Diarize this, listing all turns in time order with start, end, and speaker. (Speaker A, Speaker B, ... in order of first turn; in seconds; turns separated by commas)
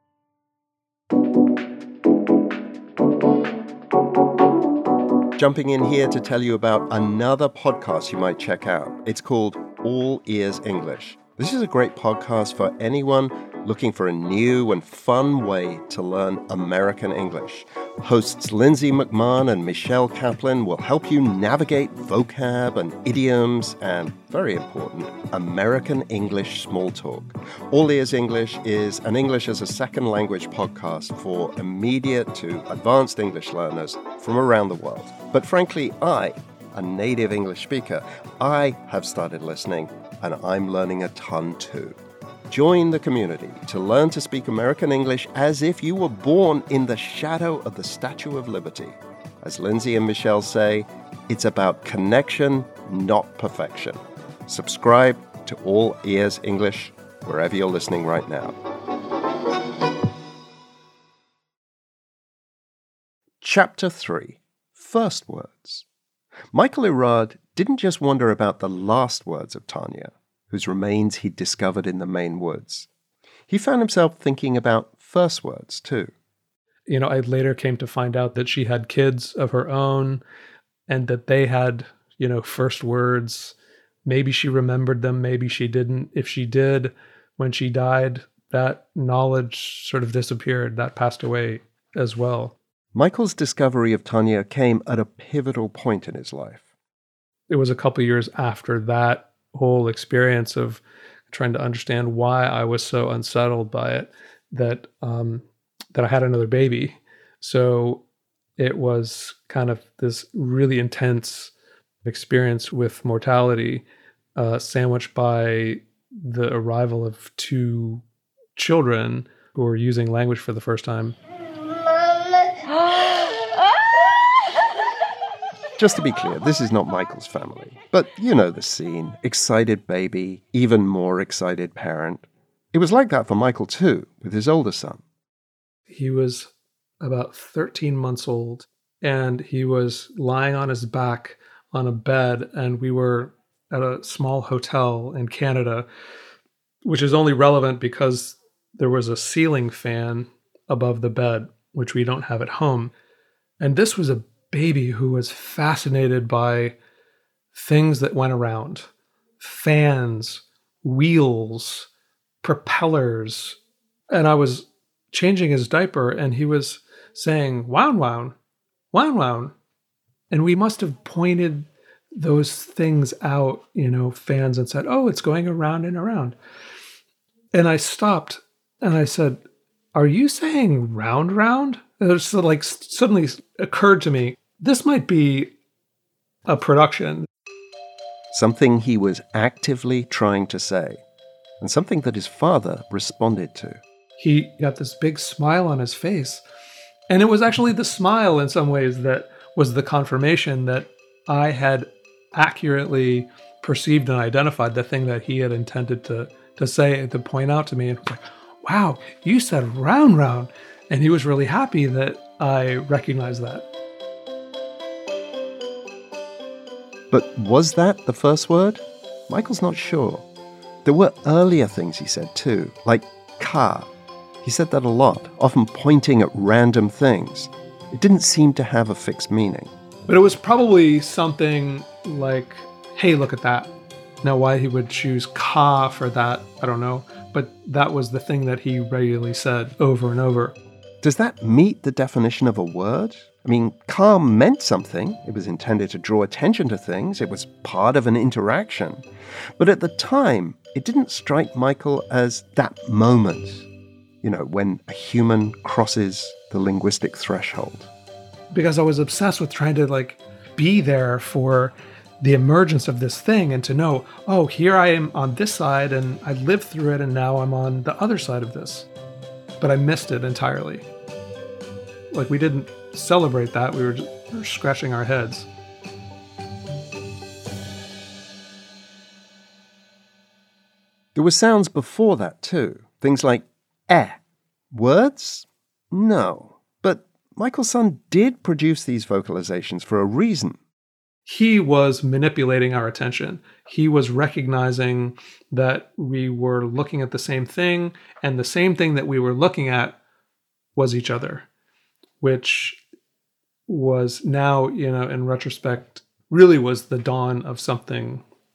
Speaker A: 5.4-42.0, Speaker A: 42.5-58.5, Speaker A: 63.4-65.8, Speaker A: 66.5-72.9, Speaker A: 73.5-76.1, Speaker B: 76.9-80.2, Speaker B: 80.9-92.5, Speaker A: 92.9-96.6, Speaker B: 97.5-108.0, Speaker B: 108.6-111.5, Speaker B: 112.0-118.0, Speaker B: 118.5-121.2, Speaker A: 125.8-135.0, Speaker B: 135.9-145.9, Speaker B: 146.8-152.9, Speaker B: 153.6-156.8, Speaker B: 157.5-158.9, Speaker B: 159.4-161.9, Speaker B: 162.4-163.6, Speaker B: 164.1-168.3, Speaker B: 168.9-169.5, Speaker B: 170.3-176.3, Speaker B: 177.5-179.4, Speaker B: 179.9-185.5, Speaker B: 186.4-187.3, Speaker A: 188.3-191.0, Speaker A: 191.6-193.8, Speaker B: 194.2-196.4, Speaker B: 197.1-213.7, Speaker A: 217.1-220.2, Speaker A: 220.8-223.9, Speaker A: 224.4-229.7, Speaker B: 230.1-240.6, Speaker A: 241.0-249.0, Speaker A: 249.6-253.7, Speaker A: 254.2-257.9, Speaker B: 258.5-268.9, Speaker B: 269.6-270.9, Speaker B: 272.1-275.5, Speaker A: 281.1-284.2, Speaker A: 284.7-290.6, Speaker B: 291.2-300.0, Speaker B: 300.7-301.5, Speaker B: 302.2-302.8, Speaker B: 303.7-308.2